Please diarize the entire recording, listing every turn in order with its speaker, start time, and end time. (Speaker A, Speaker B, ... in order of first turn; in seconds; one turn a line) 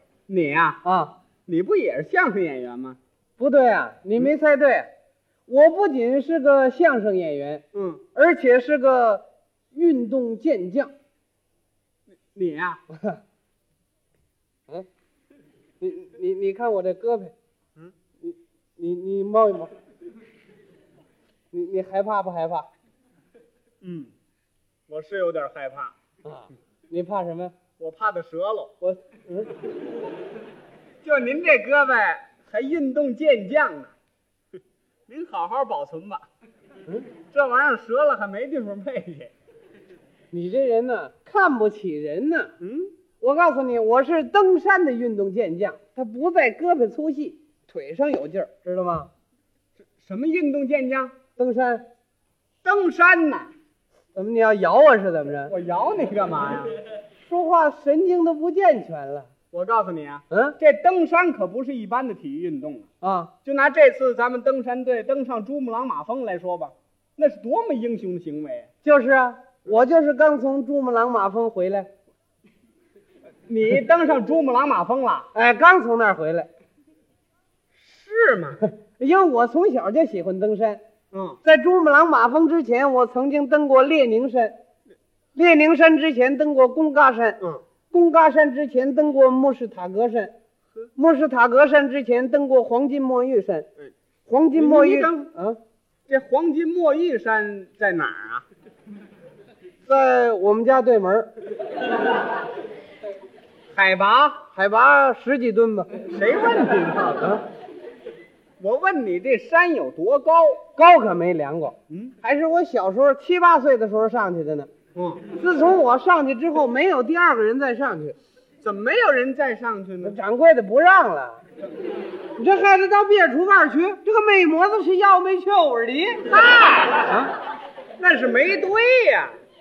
Speaker A: 0.3-0.8
Speaker B: 0.8-1.1
Speaker A: 1.5-3.0
Speaker B: 3.4-4.9
Speaker B: 5.5-10.9
Speaker A: 7.7-8.0
Speaker A: 12.3-12.8
Speaker B: 12.9-13.2
Speaker B: 15.8-17.3
Speaker B: 18.2-19.7
Speaker B: 21.5-22.7
Speaker A: 23.8-24.1
Speaker A: 24.9-25.9
Speaker B: 26.2-27.5
Speaker A: 27.8-28.8
Speaker B: 28.9-29.5
Speaker A: 31.0-33.9
Speaker A: 35.1-36.2
Speaker A: 37.3-39.3
Speaker B: 40.3-42.5
Speaker A: 42.6-42.9
Speaker B: 43.2-49.1
Speaker A: 50.0-51.1
Speaker B: 51.4-51.9
Speaker A: 52.6-53.5
Speaker B: 54.1-55.5
Speaker A: 55.5-56.7
Speaker B: 57.2-59.3
Speaker A: 59.5-62.9
Speaker B: 60.3-60.5
Speaker B: 63.0-63.3
Speaker A: 63.4-68.7
Speaker B: 68.8-71.9
Speaker A: 73.5-75.3
Speaker B: 75.3-76.5
Speaker A: 77.7-78.6
Speaker B: 79.0-80.8
Speaker A: 81.1-81.4
Speaker B: 81.4-84.5
Speaker B: 85.3-87.4
Speaker B: 87.9-90.3
Speaker B: 91.0-93.7
Speaker B: 94.3-95.6
Speaker A: 94.5-95.2
Speaker A: 96.1-98.4
Speaker B: 99.8-101.3
Speaker A: 103.7-104.4
Speaker B: 104.5-106.0
Speaker A: 106.1-107.4
Speaker A: 108.6-110.6
Speaker B: 110.8-114.7
Speaker A: 114.9-115.2
Speaker B: 115.3-118.2
Speaker A: 118.6-120.2
Speaker B: 120.0-121.4
Speaker B: 122.3-127.3
Speaker A: 126.4-126.9
Speaker A: 128.0-129.4